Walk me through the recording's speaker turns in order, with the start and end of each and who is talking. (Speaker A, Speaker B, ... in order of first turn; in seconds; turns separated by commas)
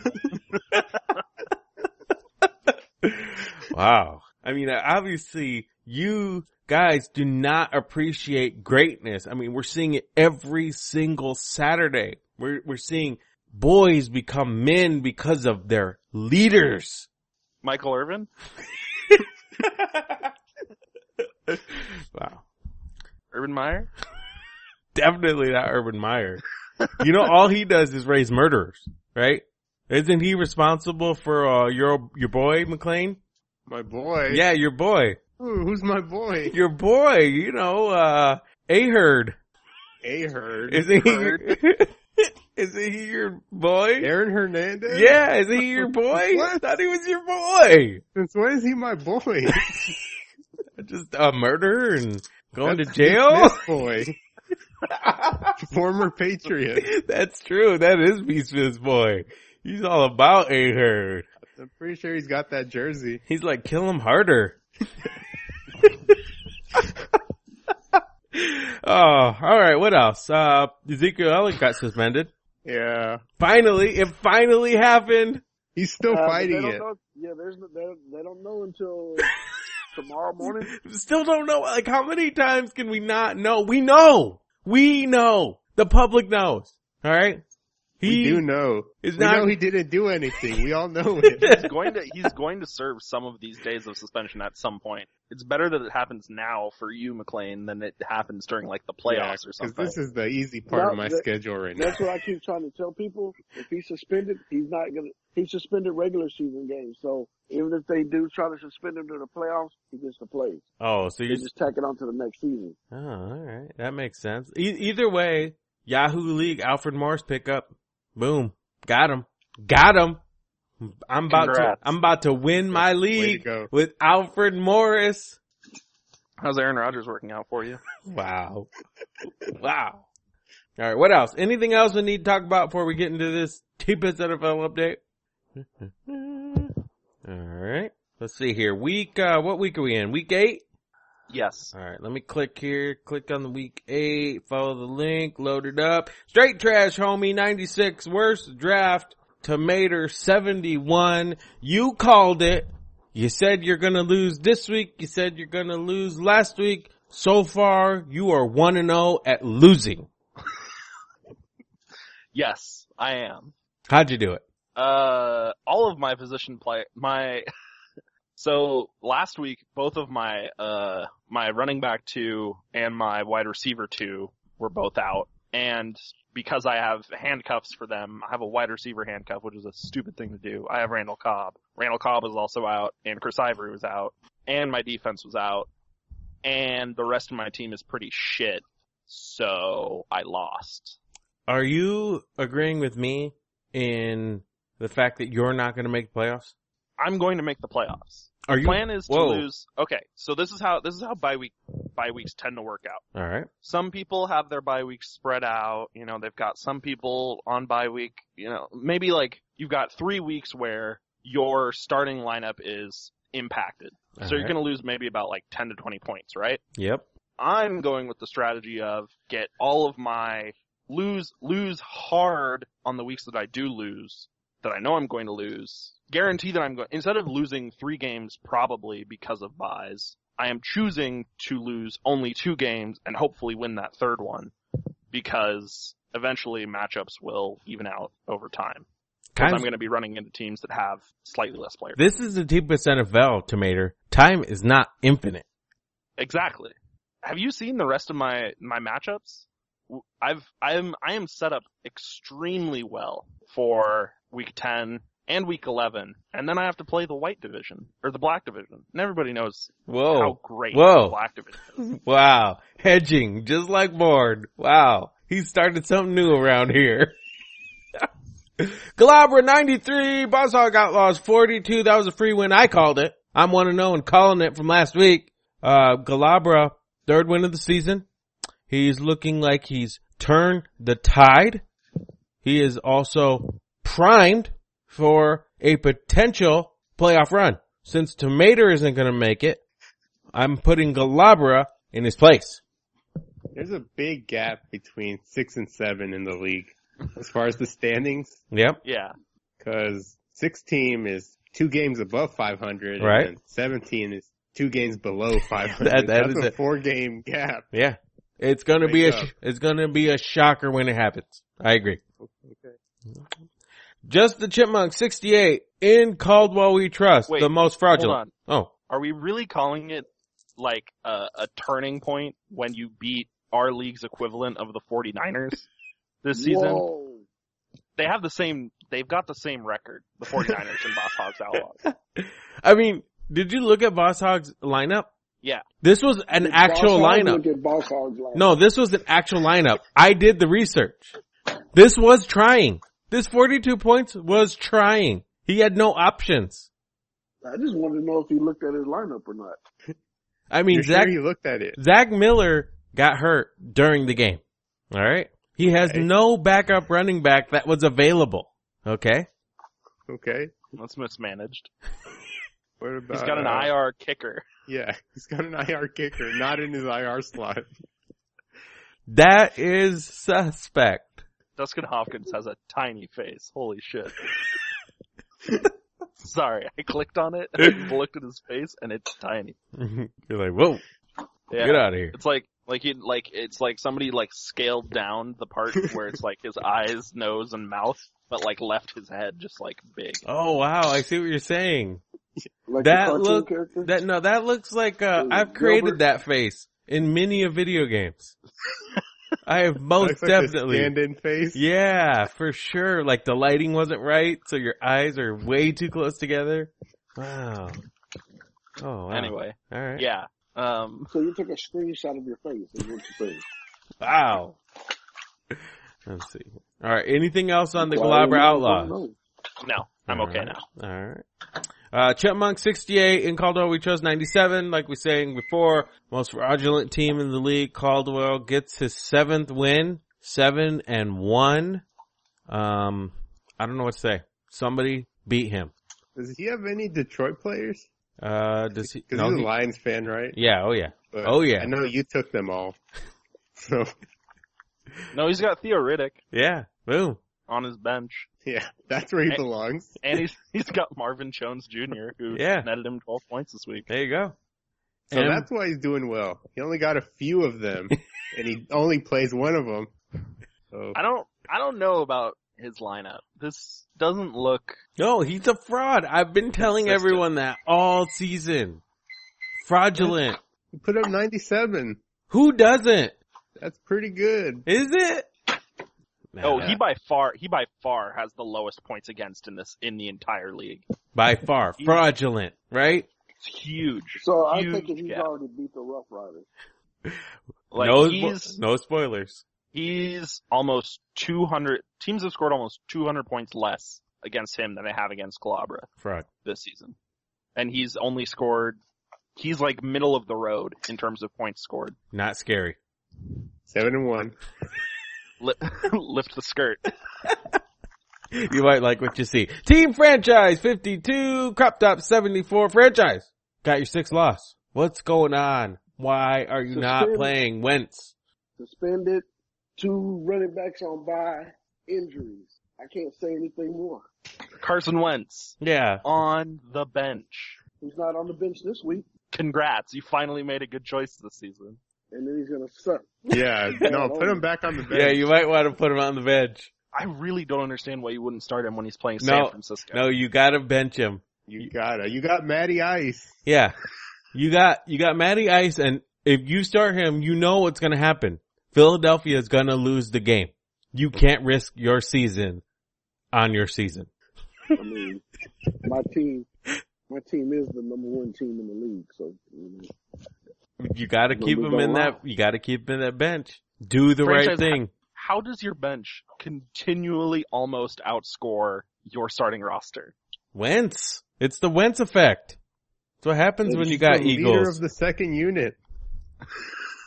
Speaker A: 2.7-17.1, Speaker B: 17.6-18.3, Speaker A: 19.9-20.3, Speaker A: 21.5-22.4, Speaker B: 23.3-23.9, Speaker A: 24.9-26.4, Speaker A: 27.0-33.2, Speaker C: 33.7-34.5, Speaker A: 34.3-35.2, Speaker C: 35.4-36.5, Speaker A: 36.5-39.4, Speaker C: 40.0-41.1, Speaker A: 40.7-44.1, Speaker B: 41.1-41.4, Speaker C: 44.0-45.2, Speaker A: 44.9-48.0, Speaker C: 45.8-46.6, Speaker C: 48.1-50.0, Speaker A: 50.8-53.7, Speaker C: 52.6-54.2, Speaker A: 54.9-55.5, Speaker C: 55.6-56.9, Speaker A: 56.8-61.3, Speaker C: 61.4-63.2, Speaker A: 63.3-64.6, Speaker A: 67.9-72.3, Speaker C: 72.7-73.2, Speaker A: 73.4-75.4, Speaker C: 75.8-76.8, Speaker D: 76.1-79.4, Speaker D: 79.9-80.7, Speaker A: 80.4-87.4, Speaker A: 88.0-88.5, Speaker C: 88.0-91.7, Speaker A: 89.0-89.6, Speaker B: 91.5-100.0, Speaker C: 99.1-102.0, Speaker D: 100.7-101.2, Speaker D: 101.8-110.7, Speaker A: 110.8-111.5, Speaker D: 111.3-112.8, Speaker A: 112.9-120.2, Speaker A: 120.8-125.4, Speaker B: 121.3-121.9, Speaker C: 122.7-123.7, Speaker B: 126.4-127.8, Speaker A: 128.1-128.7, Speaker A: 129.6-130.1, Speaker A: 130.8-135.0, Speaker A: 135.6-136.7, Speaker A: 137.2-140.6, Speaker B: 141.3-141.7, Speaker A: 141.7-160.1, Speaker B: 162.3-163.5, Speaker A: 163.9-164.4, Speaker B: 164.8-167.4, Speaker B: 168.4-185.7, Speaker B: 186.4-191.0, Speaker A: 191.5-196.5, Speaker B: 197.0-203.1, Speaker A: 198.5-199.5, Speaker A: 203.2-203.5, Speaker B: 203.6-216.6, Speaker A: 214.2-214.6, Speaker A: 216.8-217.1, Speaker B: 217.4-234.5, Speaker B: 235.1-238.9, Speaker A: 239.3-239.7, Speaker B: 239.4-242.0, Speaker A: 242.0-245.4, Speaker B: 246.2-261.8, Speaker A: 259.9-261.2, Speaker A: 261.8-267.1, Speaker A: 268.6-278.1, Speaker A: 278.7-281.6, Speaker A: 282.4-289.6, Speaker A: 290.3-292.6, Speaker C: 293.5-298.4, Speaker A: 298.5-298.8, Speaker B: 298.8-299.1, Speaker C: 299.6-307.7, Speaker A: 303.0-303.3, Speaker A: 305.8-306.6, Speaker A: 307.7-312.0, Speaker C: 308.8-309.3, Speaker C: 312.2-312.8, Speaker A: 314.1-318.7, Speaker B: 317.3-318.3, Speaker B: 318.9-320.1, Speaker B: 320.6-325.7, Speaker B: 326.2-326.8, Speaker D: 326.4-327.2, Speaker B: 328.0-331.8, Speaker A: 331.9-335.1, Speaker A: 335.8-337.4, Speaker D: 336.4-338.5, Speaker A: 338.3-341.1, Speaker A: 341.7-346.7, Speaker D: 347.4-349.6, Speaker A: 350.5-351.2, Speaker C: 350.7-351.8, Speaker A: 351.8-359.3, Speaker C: 355.7-356.1, Speaker C: 360.1-360.6, Speaker B: 360.8-361.7, Speaker C: 362.8-363.7, Speaker B: 363.1-364.4, Speaker C: 364.7-367.7, Speaker A: 369.1-371.2, Speaker B: 371.6-374.2, Speaker B: 376.2-379.6, Speaker A: 379.8-380.8, Speaker B: 381.5-390.2, Speaker A: 381.6-382.1, Speaker A: 390.3-392.0, Speaker D: 392.7-393.9, Speaker A: 392.8-398.4, Speaker D: 395.2-396.0, Speaker A: 399.4-400.9, Speaker C: 400.0-401.6, Speaker A: 401.6-407.8, Speaker A: 408.8-410.1, Speaker B: 409.1-411.1, Speaker D: 411.1-413.4, Speaker A: 414.0-414.6, Speaker A: 416.1-419.0, Speaker D: 417.8-419.2, Speaker B: 419.6-420.6, Speaker A: 420.1-421.2, Speaker A: 421.9-431.8, Speaker A: 432.5-435.7, Speaker C: 436.1-437.9, Speaker A: 438.2-439.5, Speaker C: 438.8-440.4, Speaker A: 440.3-441.7, Speaker C: 441.1-442.8, Speaker C: 443.6-443.9, Speaker B: 445.1-446.2, Speaker A: 446.3-447.2, Speaker B: 447.5-448.3, Speaker C: 448.4-450.0, Speaker B: 450.0-453.9, Speaker A: 452.3-452.7, Speaker A: 453.9-454.4, Speaker C: 455.1-459.9, Speaker A: 455.1-455.5, Speaker C: 460.7-461.0, Speaker B: 460.9-464.8, Speaker A: 465.0-468.8, Speaker B: 466.6-467.2, Speaker A: 469.6-470.4, Speaker C: 470.7-472.0, Speaker A: 472.3-473.2, Speaker C: 473.6-474.6, Speaker A: 474.7-475.3, Speaker A: 476.4-476.8, Speaker B: 476.4-480.9, Speaker A: 481.1-483.1, Speaker B: 481.8-482.0, Speaker B: 483.4-485.3, Speaker D: 484.2-486.5, Speaker B: 487.7-488.6, Speaker A: 487.8-489.4, Speaker B: 489.7-495.9, Speaker B: 496.4-497.0, Speaker B: 497.6-498.8, Speaker B: 499.4-502.0, Speaker A: 502.1-502.8, Speaker C: 503.7-504.4, Speaker B: 505.4-506.8, Speaker A: 508.3-518.1, Speaker D: 516.7-517.4, Speaker D: 518.6-519.3, Speaker D: 519.8-524.0, Speaker B: 524.6-527.6, Speaker A: 525.6-526.0, Speaker D: 527.8-529.1, Speaker B: 529.3-531.8, Speaker D: 532.1-533.2, Speaker C: 533.3-535.3, Speaker D: 533.8-534.4, Speaker A: 534.9-536.7, Speaker B: 536.9-540.0, Speaker A: 539.2-541.7, Speaker C: 541.5-543.4, Speaker A: 543.5-543.7, Speaker A: 544.3-552.6, Speaker A: 553.3-554.1, Speaker D: 554.8-555.2, Speaker D: 555.9-556.5, Speaker D: 557.1-559.9, Speaker A: 560.8-564.9, Speaker D: 561.3-562.2, Speaker B: 564.2-570.1, Speaker A: 570.5-572.6, Speaker A: 573.2-574.8, Speaker C: 573.7-575.8